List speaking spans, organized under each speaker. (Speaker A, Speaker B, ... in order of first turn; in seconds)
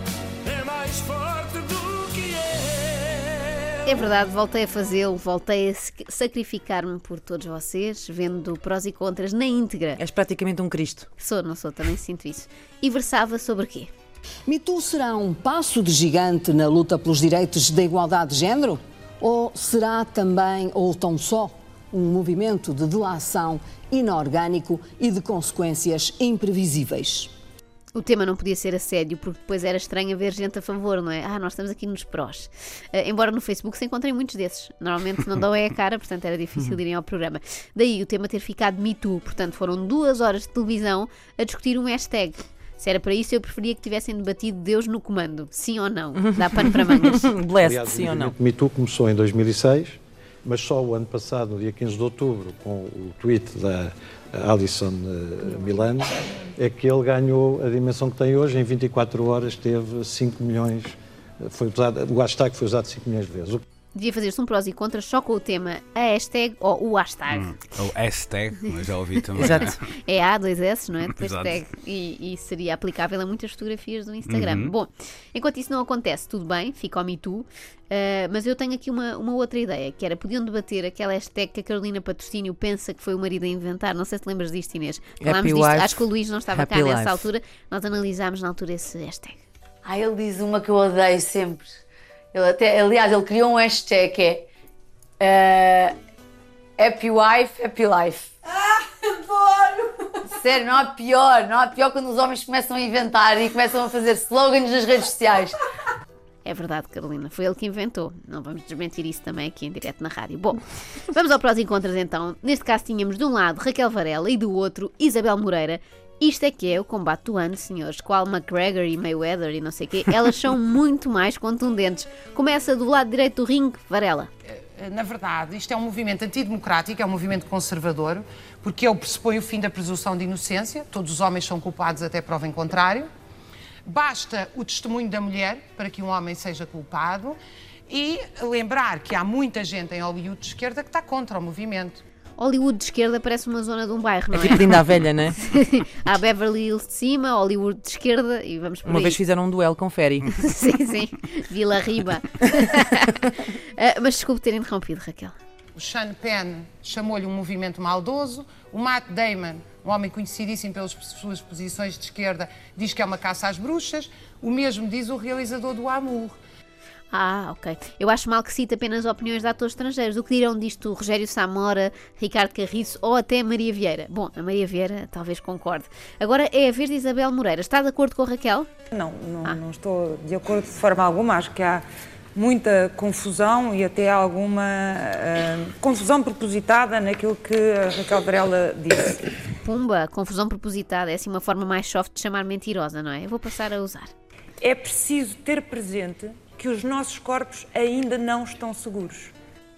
Speaker A: 0.4-3.5
Speaker B: 3.8-10.0, 11.2-13.9, 27.9-47.4, 63.9-67.6, 69.4-89.4, 106.4-124.3, 142.4-149.2, 150.3-155.3, 167.1-178.7, 189.6-194.1
Speaker C: 10.0-11.1, 47.3-48.3, 69.4-69.7, 85.2-87.3, 144.3-145.3, 148.9-150.2
Speaker D: 14.5-27.3
Speaker E: 47.6-63.6
Speaker F: 67.3-69.8, 71.2-71.5, 74.3-74.7
Speaker G: 89.8-91.7, 92.3-94.5, 95.2-95.9, 96.8-98.3, 99.3-99.6, 100.2-105.6
Speaker H: 124.5-133.1, 133.8-137.4, 137.9-142.0, 155.8-166.4
Speaker I: 178.9-181.8, 182.3-189.3, 194.6-199.3